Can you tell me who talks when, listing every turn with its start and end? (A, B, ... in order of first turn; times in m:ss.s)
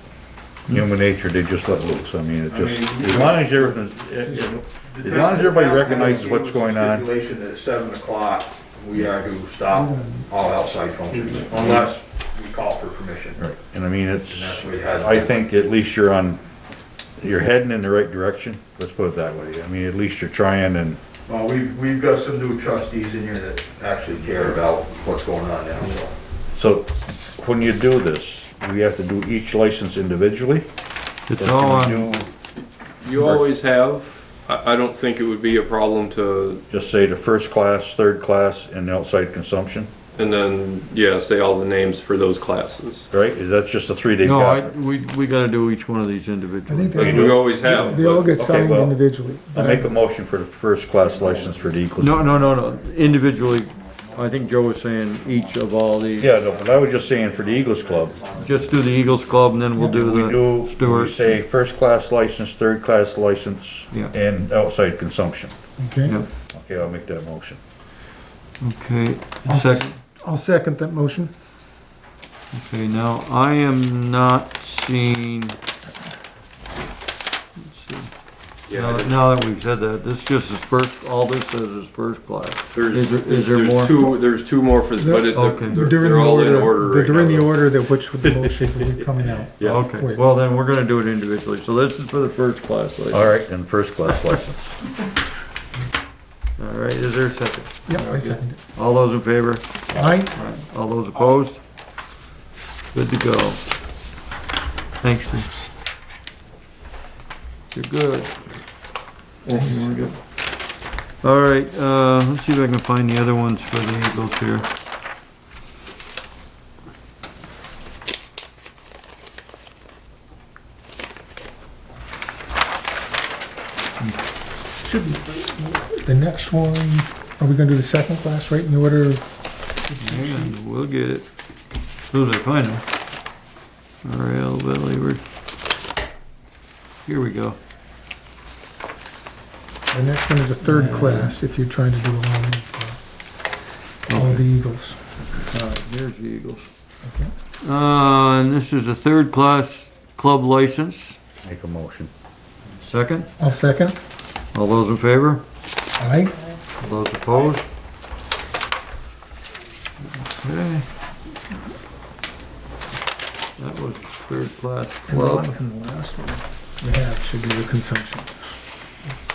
0:00.7-0:07.1 A
0:02.5-0:03.6 B
0:04.9-0:13.4 B
0:09.8-0:10.3 C
0:11.1-0:11.9 D
0:13.4-0:16.4 A
0:14.3-0:15.3 B
0:17.2-0:21.0 A
0:21.3-0:26.1 B
0:26.6-0:30.7 A
0:31.3-0:32.1 E
0:31.4-0:32.3 A
0:33.0-0:36.6 D
0:33.1-0:33.4 A
0:36.7-0:39.9 A
0:40.2-0:43.1 D
0:43.1-0:44.7 A
0:44.2-0:48.0 E
0:46.7-0:50.0 C
0:47.0-0:48.4 D
0:48.4-0:52.4 A
0:52.0-0:56.3 E
0:56.2-0:58.3 A
0:58.4-1:01.4 E
0:59.9-1:05.5 A
1:05.8-1:06.1 C
1:06.5-1:07.6 A
1:08.6-1:10.0 E
1:09.4-1:11.3 C
1:12.5-1:15.6 E
1:17.6-1:18.1 E
1:18.7-1:19.2 D
1:18.7-1:24.0 E
1:22.7-1:27.6 D
1:25.0-1:30.3 C
1:25.3-1:25.8 E
1:28.2-1:29.0 D
1:29.6-1:33.4 E
1:33.1-1:34.8 A
1:36.6-1:41.6 E
1:37.9-1:38.6 C
1:39.9-1:40.3 C
1:42.9-1:43.6 E
1:45.0-1:45.5 E
1:47.7-1:48.5 E
1:49.4-1:50.2 E
1:51.2-1:54.7 E
2:04.8-2:09.2 C
2:09.9-2:10.5 C
2:10.0-2:11.3 E
2:12.1-2:12.8 E
2:14.0-2:15.2 E
2:17.0-2:17.6 E
2:19.9-2:23.0 C
2:20.6-2:21.4 E
2:24.1-2:24.4 E
2:24.1-2:25.0 C
2:25.5-2:26.7 E
2:27.0-2:27.3 C
2:27.6-2:31.2 E
2:31.4-2:32.1 A
2:32.8-2:33.3 E
2:33.4-2:34.0 C
2:34.5-2:35.4 E
2:36.0-2:36.4 C
2:36.8-2:37.7 E
2:40.2-2:40.9 E
2:43.6-2:45.5 E
2:45.1-2:48.3 C